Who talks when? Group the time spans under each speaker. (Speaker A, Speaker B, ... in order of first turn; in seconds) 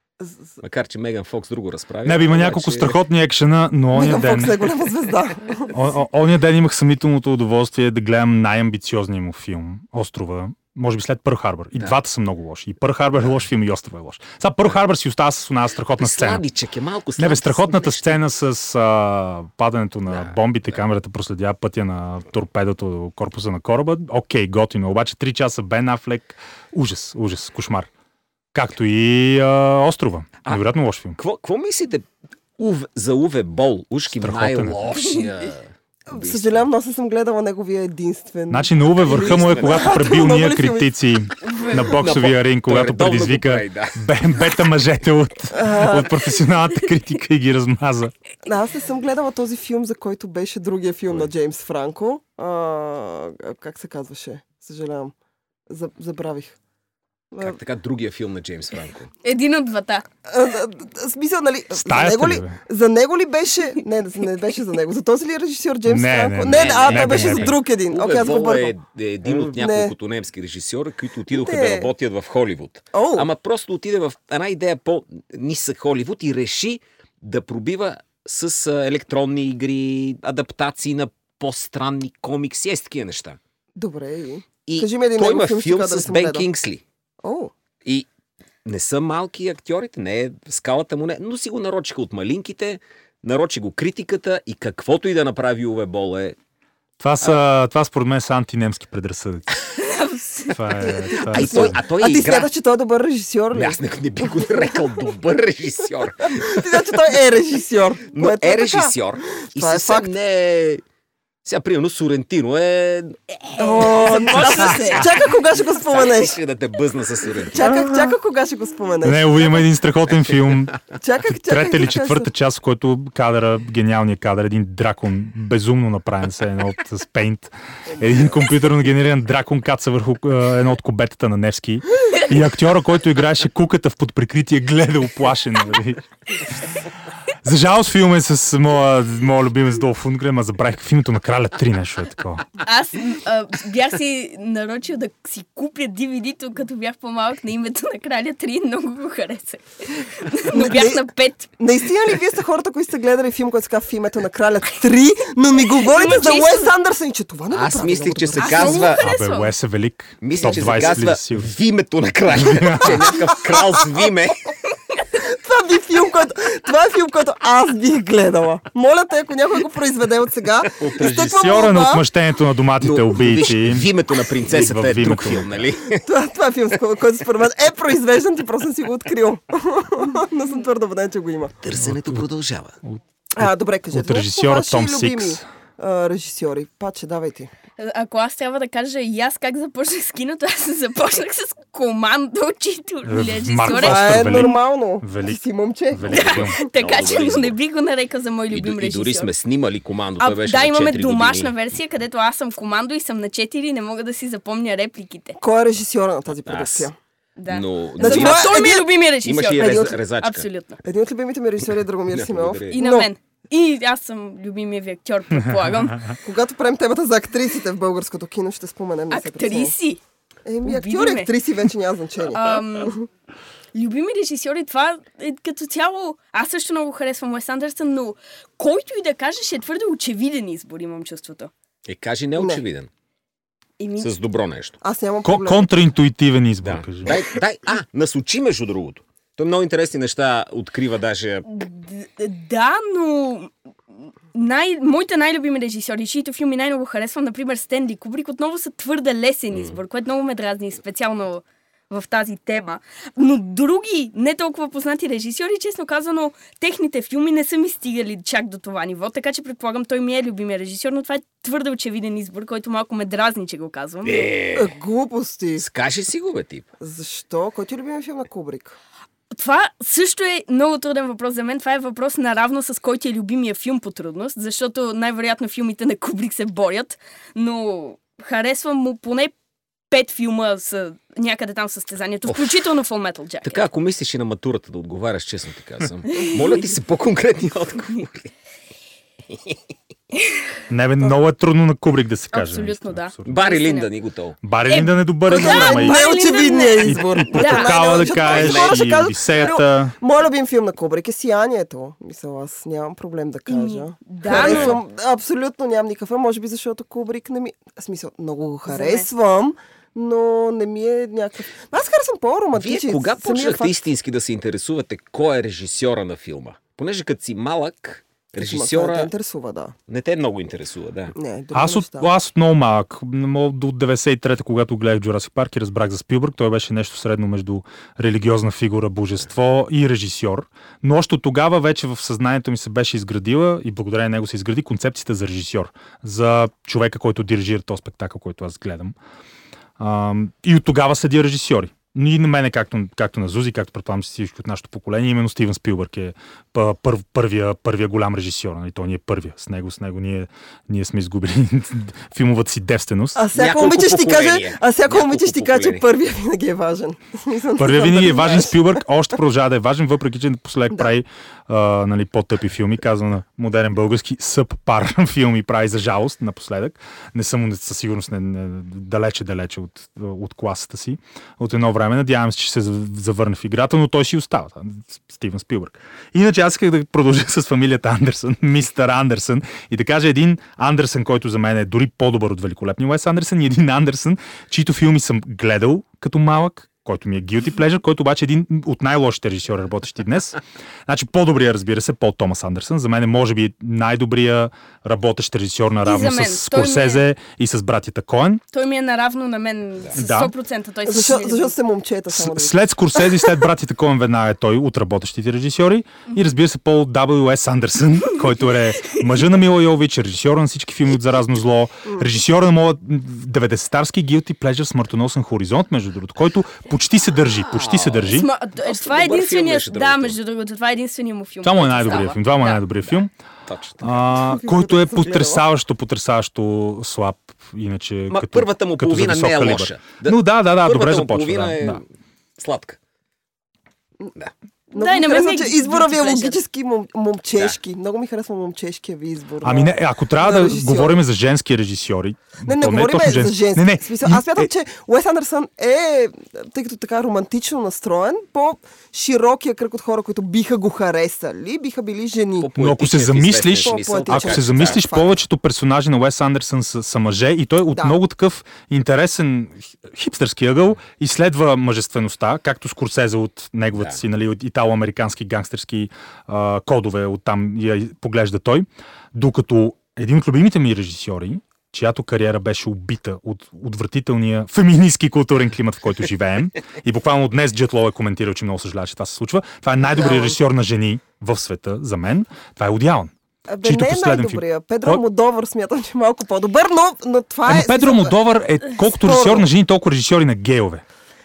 Speaker A: 0.2-0.6, 3.9-5.8, 36.1-40.9, 45.5-46.3, 48.4-55.1, 55.7-56.5, 57.3-57.6, 60.2-68.7, 69.2-69.9, 71.3-71.9, 72.9-73.3, 83.8-86.5, 87.2-87.5, 101.1-104.8, 106.3-110.1, 113.6-116.3, 117.5-119.6, 120.9-122.3, 150.5-151.1, 151.6-159.0, 165.2-172.0, 176.0-181.5, 183.3-187.5, 193.7-196.5, 205.4-206.9, 208.0-208.9, 209.6-209.9, 210.8-213.1, 216.2-219.7, 220.4-223.0, 234.8-235.8, 264.5-265.6, 266.8-268.8, 295.3-313.8, 318.4-319.7, 321.1-322.1, 353.1-358.8, 400.8-403.4, 411.9-412.1, 424.1-425.4, 434.7-441.0, 442.4-452.5, 453.6-455.2, 457.7-458.0, 479.9-480.4, 483.5-488.2, 488.9-489.5
Speaker B: 0.6-3.0, 16.0-18.2, 20.1-20.8, 31.2-32.0, 32.6-36.7, 39.1-39.9, 41.9-44.0, 57.4-59.1, 66.5-83.4, 84.7-86.8, 88.6-96.4, 101.2-102.5, 103.5-106.9, 108.1-110.8, 111.4-117.7, 157.5-159.0, 160.2-164.4, 170.7-171.6, 172.8-176.0, 181.6-182.8, 196.1-197.6, 198.5-201.5, 206.4-206.9, 207.5-208.7, 209.2-210.5, 212.1-212.8, 231.8-232.9, 234.0-234.8, 236.6-241.5, 249.5-249.8, 264.0-264.7, 265.6-266.7, 282.3-282.6, 283.4-288.3, 289.3-289.6, 293.2-294.4, 298.2-298.8, 304.2-304.8, 312.5-319.1, 319.9-321.1, 353.3-355.8, 417.4-420.2, 423.5-424.0, 428.1-431.9, 432.4-432.8, 452.4-454.9, 463.7-464.0
Speaker C: 2.0-4.7, 5.7-16.4, 17.2-27.9, 28.5-31.2, 34.1-34.8, 38.5-48.1, 61.7-62.5, 65.8-67.5, 97.0-99.6, 100.5-101.8, 117.6-118.1, 119.0-136.4, 137.4-142.5, 159.0-161.5, 162.3-163.2, 171.3-175.7, 181.8-182.2, 182.8-185.4, 193.0-195.4, 195.9-196.6, 235.2-237.2, 290.7-293.4, 294.4-296.0, 296.8-299.9, 321.5-338.9, 339.8-353.2, 357.6-398.4, 399.9-400.3, 402.1-418.3, 421.4-423.1, 423.8-431.8, 439.4-444.5, 452.6-483.1, 483.6-485.0, 487.4-490.8
Speaker D: 41.4-41.9, 59.2-60.0, 99.8-100.6, 142.6-151.5, 155.8-156.7, 158.4-159.5, 187.8-194.6, 196.1-199.3, 200.2-205.4, 207.4-210.8, 212.7-216.1, 219.1-220.0, 220.6-221.3, 222.3-223.0, 223.7-231.5, 233.8-234.1, 241.5-243.5, 244.3-264.3, 269.3-279.3, 279.9-283.6, 286.1-286.6, 292.3-293.9, 294.7-297.9, 303.5-304.8, 308.7-309.1, 395.8-397.0, 398.5-401.5, 418.1-422.6, 434.7-436.4